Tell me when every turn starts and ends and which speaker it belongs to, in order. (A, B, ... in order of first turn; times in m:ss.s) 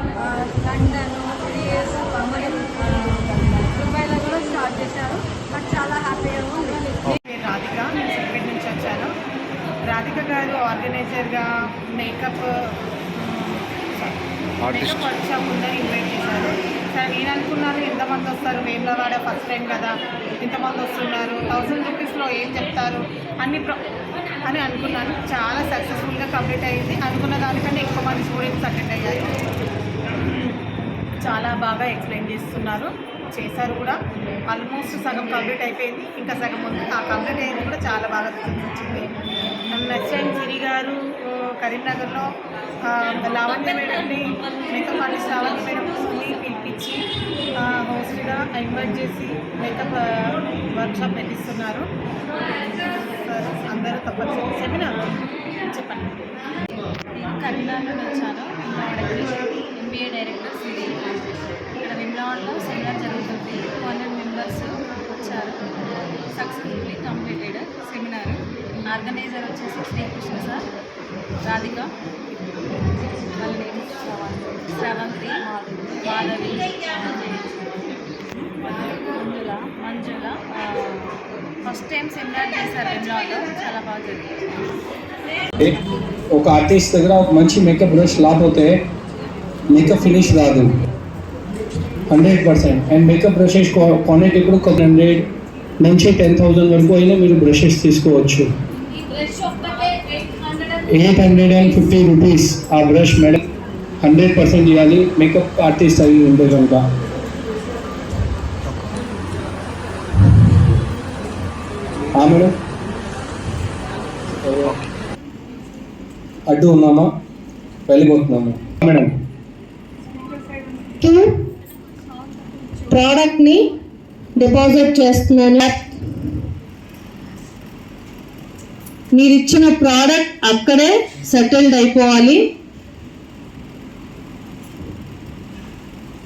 0:00.2-0:07.2 A
0:07.3-0:09.1 B
0:09.9-0:11.4 B
0:12.0-0:12.4 B
0:13.2-0:19.9 B
0:20.4-0:23.8 B
0:24.5-0:29.3 B
0:30.2-0:30.6 B
0:31.2-0:33.9 B
0:34.5-0:39.1 B
0:39.7-0:42.2 B
0:42.9-0:47.0 B
0:47.6-0:51.8 B
0:52.8-0:54.9 B
0:55.8-0:56.0 B
0:57.2-1:01.1 C
1:01.8-1:05.6 C
1:06.3-1:10.7 C
1:11.4-1:11.9 C
1:13.4-1:17.6 C
1:18.6-1:24.7 C
1:26.3-1:28.7 D
1:29.7-1:30.7 D
1:32.1-1:35.2 D
1:35.8-1:38.5 D
1:39.1-1:40.8 E
1:40.9-1:43.4 D
1:44.0-1:46.8 D
1:52.1-1:52.5 D
1:54.4-1:54.8 D
1:56.5-1:57.1 D
1:57.9-1:59.1 D
2:02.9-2:03.5 E
2:04.4-2:05.7 E
2:09.2-2:12.3 E